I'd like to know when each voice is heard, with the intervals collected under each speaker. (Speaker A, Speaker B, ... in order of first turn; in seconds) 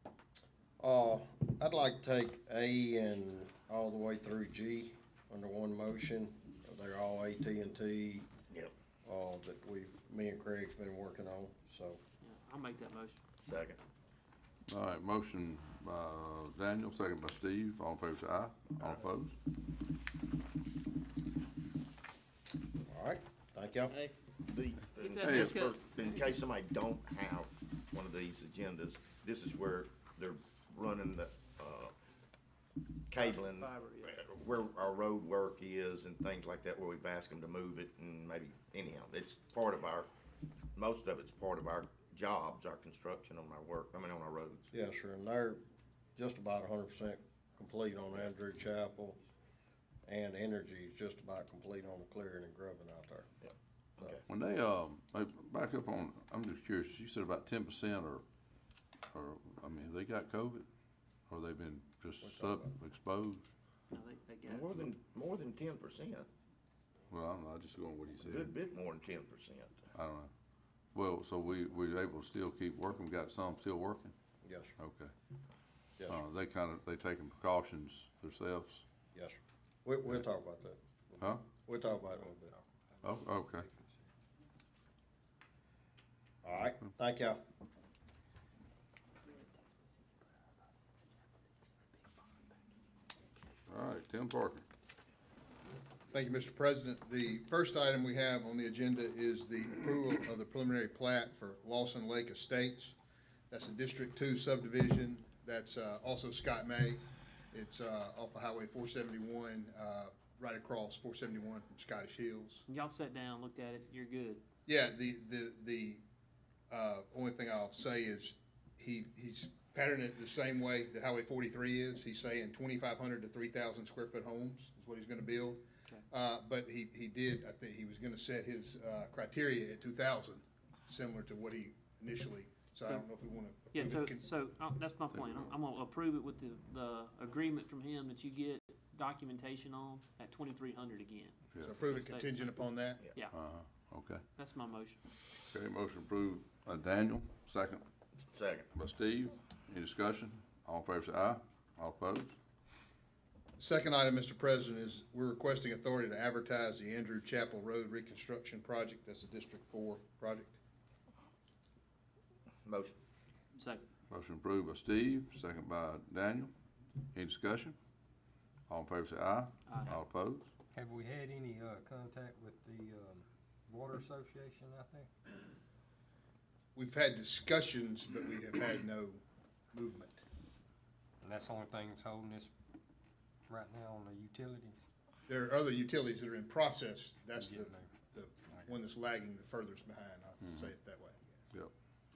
Speaker A: 0.8-8.3, 9.0-12.0, 22.8-24.0, 44.7-45.6, 46.1-49.2, 50.0-53.2, 62.2-62.7, 74.4-74.7, 79.1-82.5, 86.4-87.4
Speaker B: 12.2-13.2, 24.9-26.3, 33.1-34.1, 63.9-64.9, 112.7-114.4, 133.7-142.5, 144.3-145.0, 163.6-163.8, 169.7-170.0
Speaker C: 13.4-13.8, 24.4-31.9, 33.1-40.1, 40.7-44.7, 53.4-54.2, 64.4-66.3, 68.2-69.8, 148.3-148.7, 162.6-163.0
Speaker D: 14.7-19.3, 25.2-25.6, 54.3-58.2, 59.1-60.6, 61.3-63.5, 67.1-68.5, 69.9-70.3, 70.9-74.1, 74.8-75.1, 76.1-78.8, 83.0-83.7, 93.7-94.7, 143.3-144.2, 145.5-147.8, 148.7-152.4, 164.1-166.5, 167.1-167.8, 168.7-170.5
Speaker E: 83.0-84.0, 170.7-175.1, 181.2-182.5, 183.5-184.8, 187.3-188.7
Speaker F: 96.1-103.0, 103.5-112.6, 114.7-116.0, 116.7-134.2, 141.6-143.1, 153.6-160.6, 176.7-179.2, 179.7-180.2, 185.3-191.3